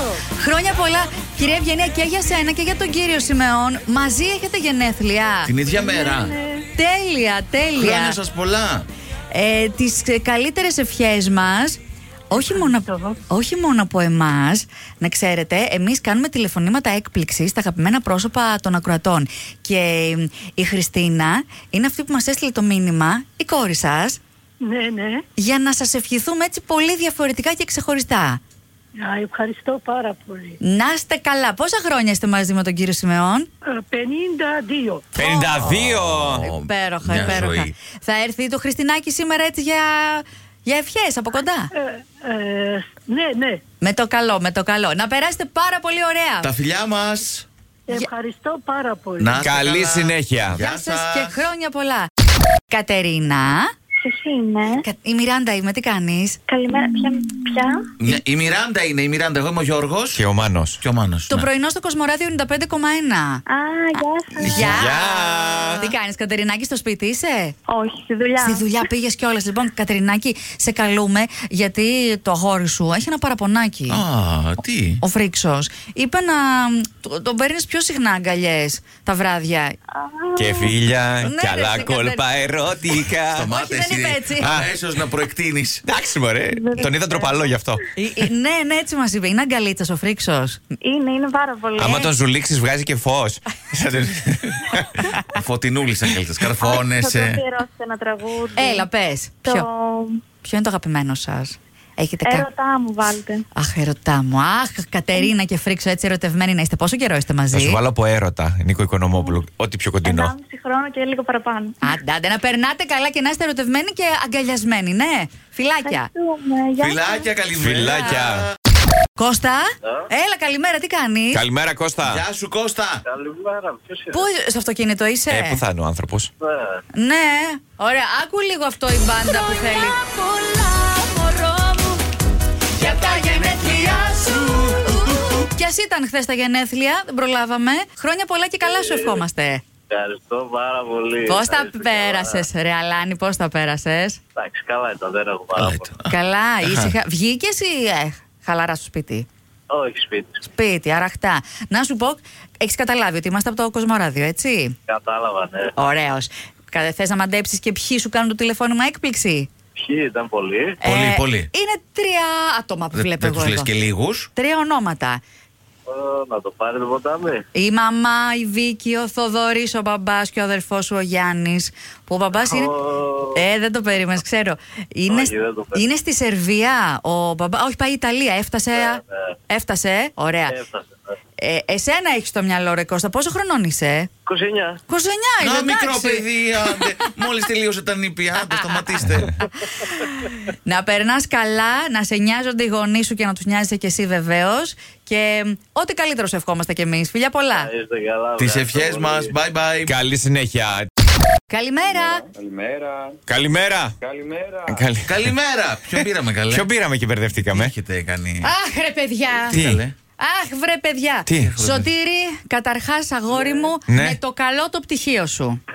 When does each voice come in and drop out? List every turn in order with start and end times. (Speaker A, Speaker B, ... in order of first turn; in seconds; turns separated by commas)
Speaker A: 0.3-5.5, Speaker B: 5.5-6.4, Speaker C: 5.8-6.6, Speaker A: 6.7-8.2, Speaker B: 7.8-8.9, Speaker A: 9.3-11.8, Speaker A: 12.3-24.2, Speaker C: 12.4-13.2, Speaker C: 24.6-25.2, Speaker A: 25.4-28.4, Speaker C: 29.0-30.6, Speaker A: 30.6-33.5, Speaker C: 33.7-35.0, Speaker A: 35.1-35.8, Speaker D: 35.2-36.5, Speaker B: 35.7-37.7, Speaker A: 36.4-41.7, Speaker C: 41.8-43.6, Speaker A: 43.8-46.5, Speaker B: 46.4-47.5, Speaker C: 47.9-49.4, Speaker B: 49.2-51.5, Speaker D: 49.4-50.6, Speaker A: 50.6-52.1, Speaker A: 52.7-53.7, Speaker E: 54.0-54.8, Speaker A: 54.8-56.4, Speaker E: 56.5-57.8, Speaker B: 58.0-60.2, Speaker D: 60.1-60.8, Speaker B: 60.8-61.5, Speaker A: 61.3-63.4, Speaker E: 63.5-64.6, Speaker B: 64.4-64.9, Speaker D: 64.5-65.9, Speaker A: 64.5-67.5, Speaker E: 67.7-68.6, Speaker A: 68.4-74.0, Speaker B: 73.9-75.0, Speaker A: 75.0-79.8, Speaker D: 80.3-83.5, Speaker A: 81.2-82.2, Speaker B: 83.3-85.8, Speaker A: 83.5-84.5, Speaker D: 84.4-84.7, Speaker D: 85.8-87.8, Speaker E: 86.6-87.2, Speaker A: 88.0-90.6, Speaker E: 90.8-92.1, Speaker D: 91.8-95.3, Speaker B: 95.3-97.4, Speaker E: 96.6-98.8, Speaker A: 98.5-99.7, Speaker E: 99.4-100.2, Speaker A: 100.4-102.5, Speaker E: 102.2-103.4, Speaker A: 103.5-107.8, Speaker D: 107.5-110.3, Speaker E: 109.1-109.4, Speaker E: 110.0-111.8, Speaker A: 111.8-116.1, Speaker E: 115.8-117.3, Speaker B: 116.8-118.5, Speaker D: 117.5-118.5, Speaker A: 119.2-121.4, Speaker D: 121.3-122.2, Speaker B: 122.0-123.0, Speaker F: 123.1-124.2, Speaker A: 124.1-125.6, Speaker D: 125.3-126.3, Speaker F: 126.4-126.8, Speaker A: 126.9-132.0, Speaker A: 132.7-139.6, Speaker F: 138.6-139.2, Speaker F: 139.9-142.4, Speaker A: 141.2-144.2, Speaker F: 144.4-145.9, Speaker B: 145.6-146.9, Speaker A: 146.1-149.2, Speaker F: 149.7-150.4, Speaker A: 150.5-154.7, Speaker F: 154.9-155.7, Speaker A: 155.8-159.5, Speaker F: 159.8-160.8, Speaker A: 160.8-163.7, Speaker B: 160.8-161.5, Speaker B: 162.9-164.3, Speaker A: 164.4-165.2, Speaker F: 165.9-167.4, Speaker A: 167.5-172.7, Speaker F: 172.3-173.4, Speaker A: 173.3-180.6, Speaker F: 175.1-175.8, Speaker F: 178.7-179.0, Speaker F: 180.5-180.9, Speaker A: 181.4-184.1, Speaker F: 184.2-184.8, Speaker A: 184.9-186.9, Speaker B: 185.4-189.3, Speaker A: 188.4-189.0, Speaker A: 189.8-197.7, Speaker F: 197.5-199.3, Speaker B: 198.4-200.0, Speaker D: 199.8-200.9, Speaker A: 201.5-202.2, Speaker G: 201.8-203.2, Speaker D: 203.3-204.0, Speaker G: 204.0-204.9, Speaker D: 204.7-205.3, Speaker B: 205.1-206.7, Speaker D: 205.9-207.7, Speaker B: 207.4-208.5, Speaker A: 208.4-209.6, Speaker B: 209.5-209.9, Speaker D: 209.5-209.8, Speaker A: 210.2-215.6, Speaker B: 211.4-211.9, Speaker G: 213.3-213.7, Speaker D: 213.9-214.2